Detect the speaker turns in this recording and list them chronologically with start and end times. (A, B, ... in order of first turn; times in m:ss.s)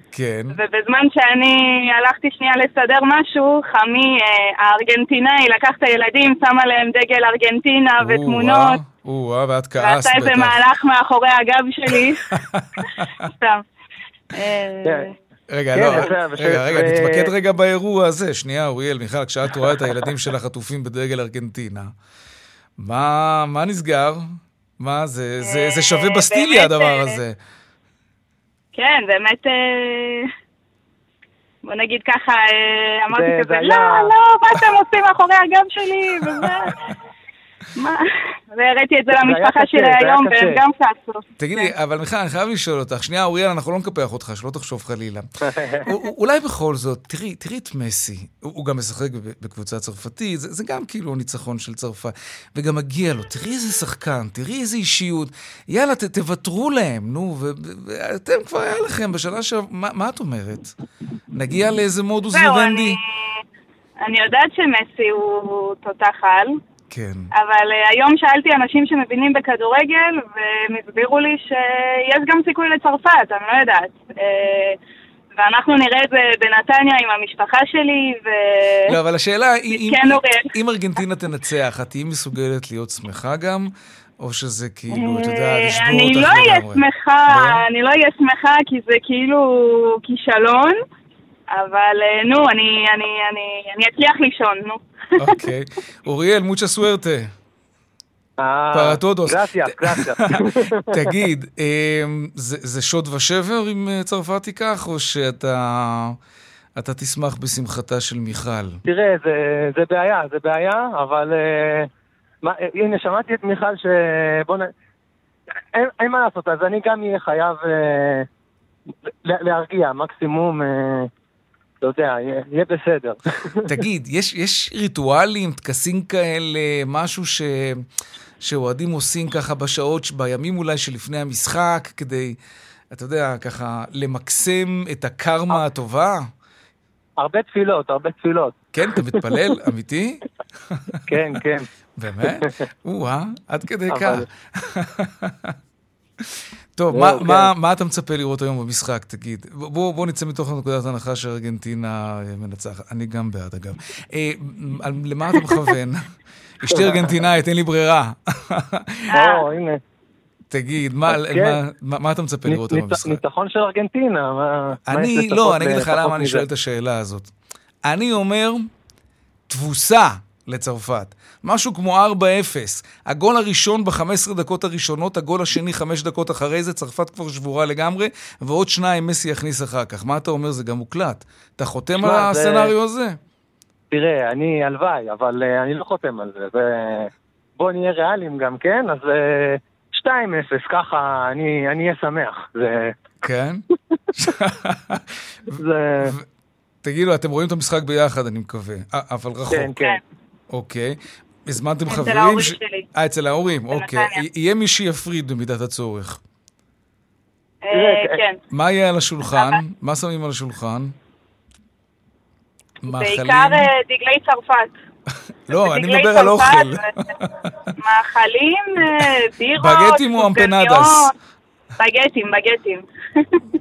0:00.1-0:00.6 A
0:00.5-0:08.8 B
0:08.0-0:10.6 A
0:09.8-0:12.3 B
0:12.3-0:13.3 A
0:13.2-0:13.6 B
0:14.3-0:15.1 B
0:15.5-0:21.9 A
0:15.7-0:17.3 C
0:22.8-0:27.4 A
0:25.4-0:27.2 B
0:28.8-0:30.3 B
0:31.6-0:36.8 B
0:33.1-0:34.1 C
0:37.8-0:41.7 B
0:39.2-0:40.6 C
0:41.4-0:45.3 A
0:45.5-0:45.9 C
0:45.8-1:00.7 A
1:01.3-1:03.0 A
1:02.3-1:03.0 B
1:04.0-1:06.6 B
1:06.9-1:07.3 A
1:07.4-1:14.8 B
1:15.4-1:19.0 B
1:18.9-1:27.6 A
1:19.7-1:20.5 B
1:24.9-1:30.8 B
1:31.5-1:35.3 B
1:35.2-1:37.3 A
1:38.4-1:41.0 C
1:38.7-1:46.2 A
1:46.8-1:48.8 A
1:48.9-1:51.9 C
1:52.4-1:54.7 C
1:55.7-1:58.3 C
1:59.1-2:01.1 C
2:01.8-2:03.8 C
2:03.6-2:07.8 A
2:08.4-2:12.4 A
2:12.9-2:16.2 A
2:17.2-2:18.6 C
2:18.8-2:21.0 A
2:21.1-2:21.7 C
2:22.0-2:25.6 A
2:22.2-2:22.6 C
2:23.9-2:24.3 C
2:26.2-2:39.1 A
2:26.9-2:27.5 C
2:36.7-2:37.1 C
2:39.1-2:39.4 B
2:39.1-2:39.8 C
2:40.5-2:43.2 A
2:41.1-2:41.6 C
2:42.5-2:46.4 C
2:44.9-2:47.3 A
2:47.8-2:48.7 A
2:49.5-3:03.2 A
3:02.0-3:02.7 C
3:03.9-3:13.0 C
3:13.2-3:13.6 A
3:14.2-3:16.3 A
3:15.5-3:16.1 C
3:16.8-3:19.8 A
3:19.5-3:20.0 C
3:20.5-3:26.2 A
3:21.9-3:22.9 B
3:23.7-3:24.2 B
3:27.6-3:28.4 B
3:27.7-3:28.2 C
3:28.5-3:31.0 A
3:32.8-3:33.7 A
3:32.9-3:34.7 B
3:35.5-3:37.7 A
3:35.5-3:36.9 B
3:37.8-3:41.1 B
3:39.6-3:41.1 A
3:41.8-3:43.4 B